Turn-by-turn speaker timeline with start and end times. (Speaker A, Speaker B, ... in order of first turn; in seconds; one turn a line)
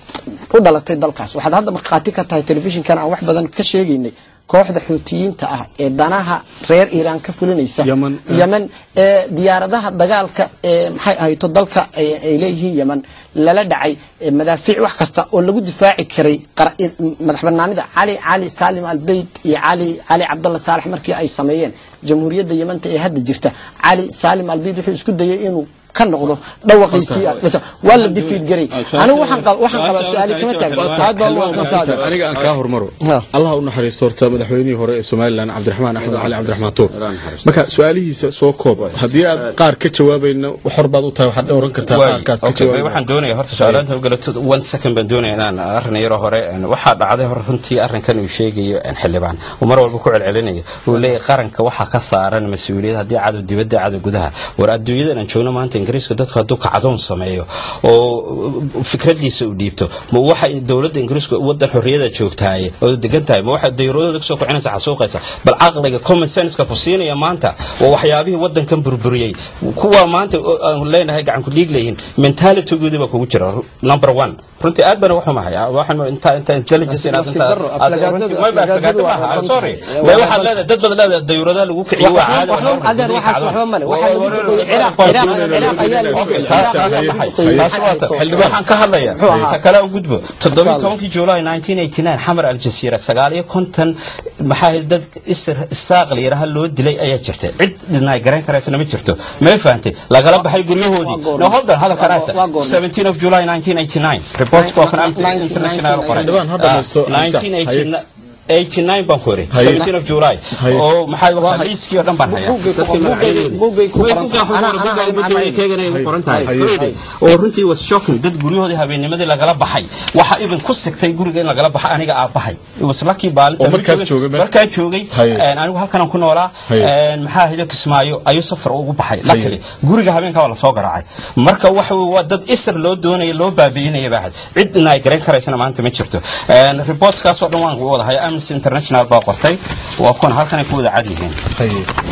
Speaker A: 0.5-32.0
Speaker B: 7.8-8.4
Speaker C: 27.0-32.5
Speaker B: 30.8-36.9
Speaker C: 36.0-37.6
Speaker B: 37.4-43.0
Speaker C: 38.9-39.6
Speaker C: 41.9-141.4
Speaker B: 43.5-43.8
Speaker A: 76.9-80.6
Speaker A: 82.0-88.5
Speaker B: 84.7-88.5
Speaker A: 89.1-89.6
Speaker A: 90.4-91.0
Speaker A: 101.0-102.8
Speaker A: 104.5-106.3
Speaker B: 106.1-107.9
Speaker B: 109.5-109.9
Speaker B: 110.6-110.8
Speaker A: 111.4-111.7
Speaker A: 112.2-115.6
Speaker B: 115.9-116.9
Speaker B: 123.6-124.5
Speaker B: 125.1-125.4
Speaker B: 129.3-129.6
Speaker B: 141.6-141.9